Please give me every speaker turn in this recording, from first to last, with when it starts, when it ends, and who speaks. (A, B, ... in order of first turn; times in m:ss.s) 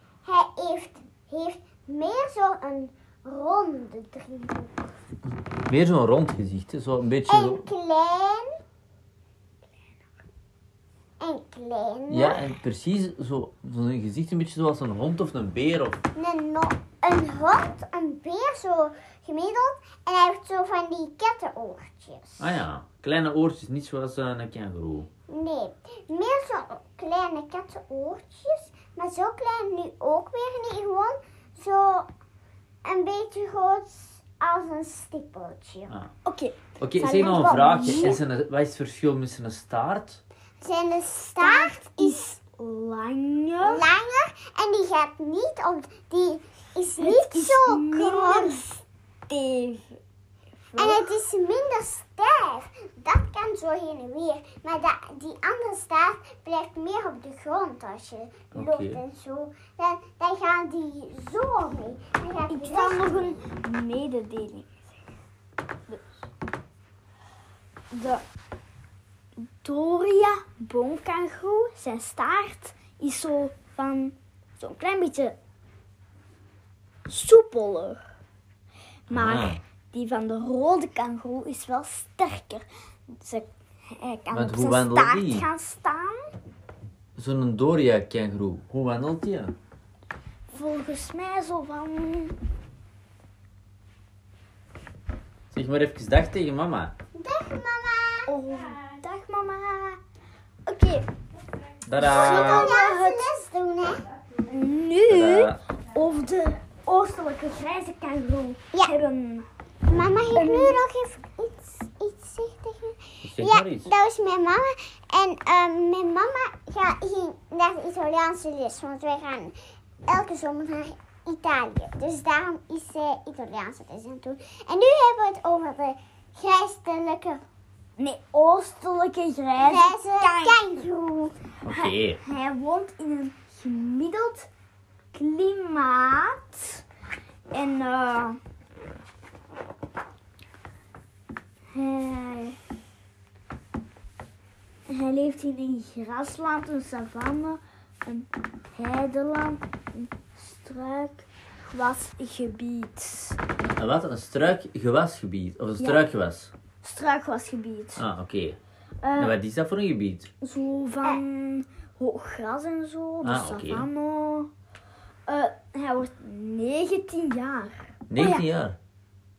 0:00.2-0:04.9 A
0:05.7-0:07.6 B
0:07.3-0:08.6 A
0:11.2-0:12.4 A
0:12.1-0:16.0 B
0:16.2-0:22.5 A
0:22.4-0:25.1 B
0:25.3-0:32.1 A
0:32.8-0:35.9 A
0:36.2-0:38.2 C
0:36.8-0:40.2 B
0:37.1-0:38.2 A
0:40.6-0:42.3 A
0:41.4-0:43.9 C
0:43.6-0:48.8 A
0:47.0-0:48.6 C
0:49.3-0:50.0 C
0:50.7-0:51.2 C
0:50.8-1:03.4 A
0:58.5-0:59.0 B
1:02.5-1:04.9 C
1:07.9-1:08.2 C
1:09.6-1:15.4 C
1:17.1-1:18.0 C
1:19.1-1:26.3 C
1:19.1-1:19.6 B
1:24.3-1:25.5 B
1:27.2-1:29.6 B
1:30.5-1:32.4 C
1:35.5-1:36.9 B
1:37.1-1:38.3 A
1:38.3-1:40.0 C
1:40.7-1:41.1 C
1:41.9-1:42.7 B
1:42.0-1:44.0 A
1:42.0-1:43.3 C
1:44.5-1:49.5 C
1:45.1-1:45.6 B
1:49.9-1:59.6 A
1:50.4-1:50.8 C
1:53.2-1:53.9 B
2:00.1-2:07.4 A
2:08.0-2:10.9 C
2:09.6-2:11.3 A
2:11.6-2:12.2 B
2:11.7-2:14.5 C
2:15.1-2:16.8 C
2:17.5-2:18.4 C
2:21.7-2:22.6 C
2:24.9-2:33.4 C
2:33.8-2:36.5 B
2:36.8-2:38.0 C
2:38.0-2:38.6 B
2:39.0-2:39.4 C
2:39.2-2:40.3 B
2:40.4-2:44.5 C
2:43.2-2:43.9 B
2:45.3-2:48.4 C
2:48.1-2:48.8 B